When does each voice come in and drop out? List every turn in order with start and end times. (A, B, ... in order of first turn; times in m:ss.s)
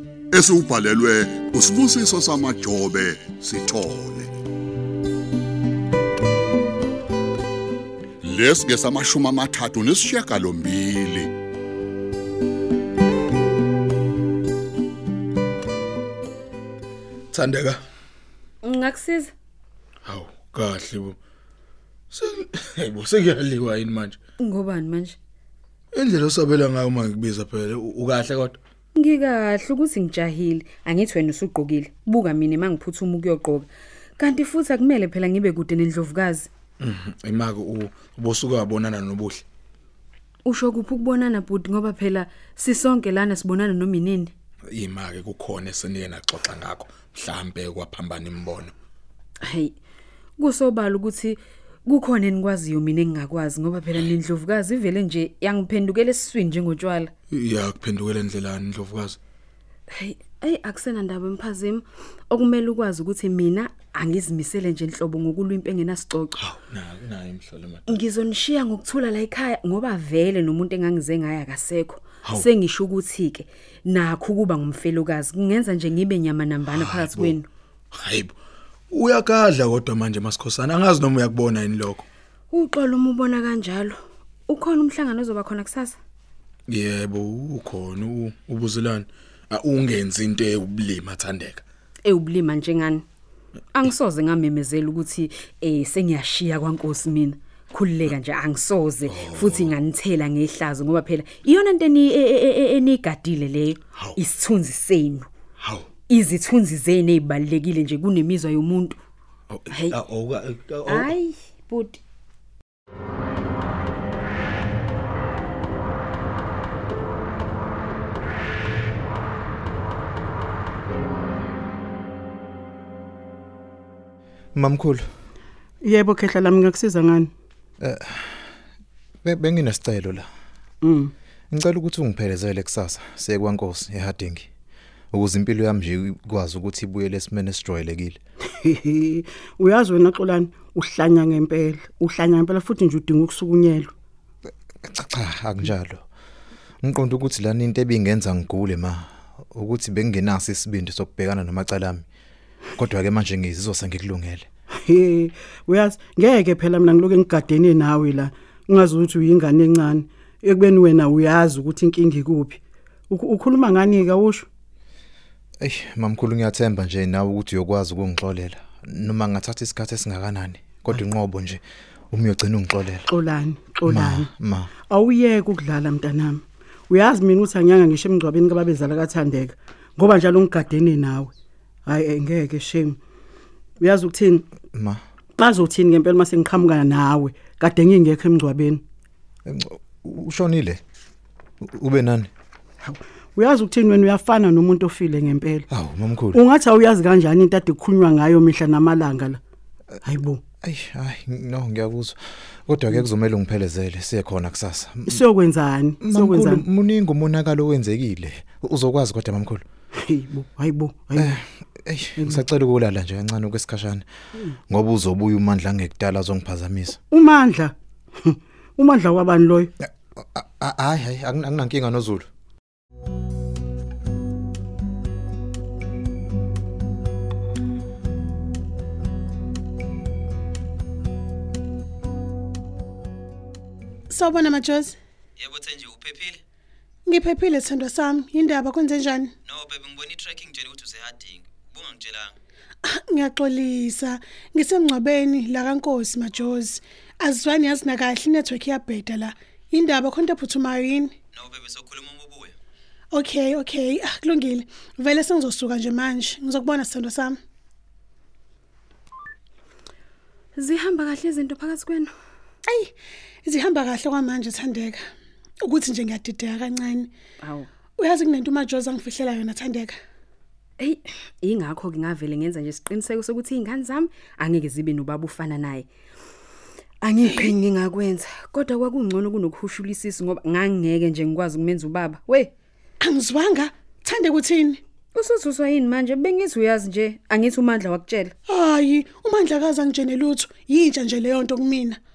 0:00.3-0:04.3 A
0:08.2-0:11.3 A
0:17.3-0:17.8 B
0:18.6-0:19.3 C
0:20.0-0:21.2 B
0:22.1-0:24.2 B
0:24.4-0:25.2 C
0:25.9-0:28.6 B
0:28.9-0:36.5 C
0:36.8-0:39.4 B
0:40.4-0:44.3 C
0:44.7-0:48.7 B
0:49.4-0:49.7 C
0:50.4-0:57.1 C
0:57.3-0:59.2 B
0:59.9-1:06.4 C
1:06.4-1:08.0 B
1:07.9-1:17.5 C
1:16.7-1:17.4 B
1:17.9-1:18.3 B
1:18.9-1:22.0 B
1:22.5-1:26.0 C
1:26.7-1:31.6 B
1:32.0-1:33.0 C
1:33.7-1:45.3 C
1:39.1-1:39.7 B
1:45.6-1:45.9 B
1:46.1-1:49.0 C
1:49.5-1:51.1 B
1:49.7-1:50.0 C
1:50.9-1:52.0 C
2:04.6-2:05.0 D
2:05.8-2:07.3 E
2:07.8-2:08.4 D
2:09.2-2:10.3 D
2:10.8-2:11.1 E
2:11.5-2:14.5 D
2:15.1-2:18.2 D
2:18.6-2:23.9 E
2:24.8-2:26.0 D
2:26.8-2:32.0 D
2:32.8-2:34.5 D
2:34.9-2:44.5 E
2:45.6-2:51.6 D
2:52.1-2:53.1 D
2:53.1-2:54.3 E
2:53.9-2:54.7 D
2:54.9-3:01.3 E
3:01.9-3:03.0 E
3:03.8-3:04.4 E
3:04.7-3:05.0 D
3:05.4-3:08.8 E
3:09.5-3:10.8 D
3:11.6-3:12.3 D
3:12.8-3:15.6 E
3:15.7-3:16.4 D
3:16.3-3:19.4 E
3:20.1-3:20.4 E
3:20.6-3:25.2 D
3:25.1-3:26.6 E
3:26.0-3:29.6 D
3:30.1-3:31.3 E
3:31.2-3:34.0 D
3:34.7-3:37.0 D
3:37.1-3:39.7 E
3:39.9-3:42.3 D
3:54.1-3:55.0 F
3:55.4-3:56.4 G
3:57.1-3:59.3 F
3:59.4-4:02.3 G
4:02.8-4:11.1 F
4:11.3-4:12.6 G
4:13.1-4:17.4 F
4:20.6-4:22.1 C
4:22.7-4:25.0 F
4:25.6-4:27.1 F
4:27.4-4:27.7 C
4:28.0-4:30.0 F
4:30.8-4:35.9 C
4:37.0-4:42.5 C
4:43.0-4:44.8 F
4:45.2-4:48.4 C
4:48.5-4:52.0 F